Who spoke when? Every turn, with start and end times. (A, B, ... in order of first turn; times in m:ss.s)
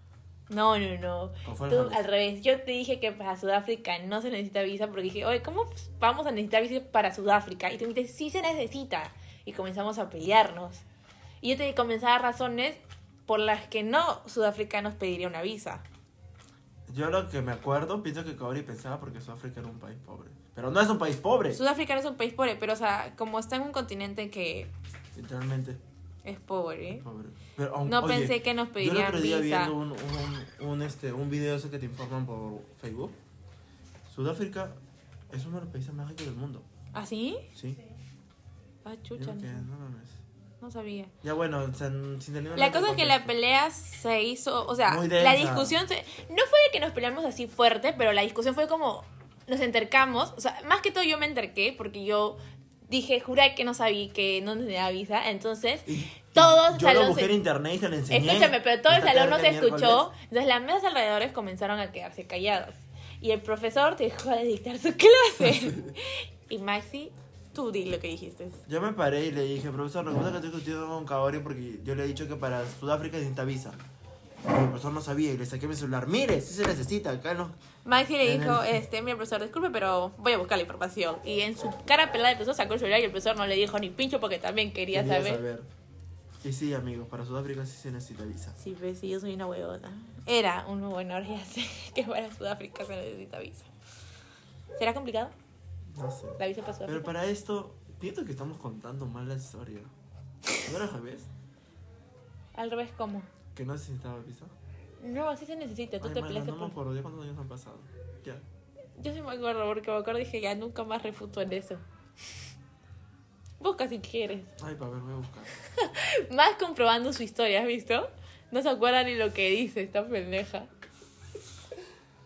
0:00.5-0:10.8 A
0:01.4-0:02.1 B
0:11.4-0:15.8 A
0:16.9-0:21.6 B
0:21.5-0:24.7 A
0:25.1-0:25.8 B
0:26.2-0:27.0 A
0:27.0-0:33.2 B
0:27.8-0:29.8 A
0:34.1-0:36.7 B
0:36.9-0:37.5 A
0:37.5-0:37.8 B
0:38.8-0:39.7 A
0:39.1-0:40.2 B
0:40.6-0:41.1 A
0:41.2-0:43.3 B
0:42.6-0:57.4 A
0:44.9-0:45.8 B
0:55.9-1:00.1 B
0:58.1-1:08.6 A
1:08.6-1:13.8 B
1:14.5-1:17.6 B
1:17.8-1:25.4 A
1:18.2-1:18.8 B
1:24.9-1:25.7 B
1:26.4-1:28.6 B
1:28.6-1:33.7 A
1:34.8-1:35.3 A
1:35.9-1:39.9 B
1:36.4-1:37.1 A
1:40.6-1:41.3 B
1:42.5-1:43.3 A
1:43.5-1:44.5 B
1:45.0-1:46.8 A
1:46.0-1:48.4 B
1:49.0-1:51.8 A
1:53.6-1:54.5 A
1:54.6-1:55.5 B
1:55.8-2:00.7 A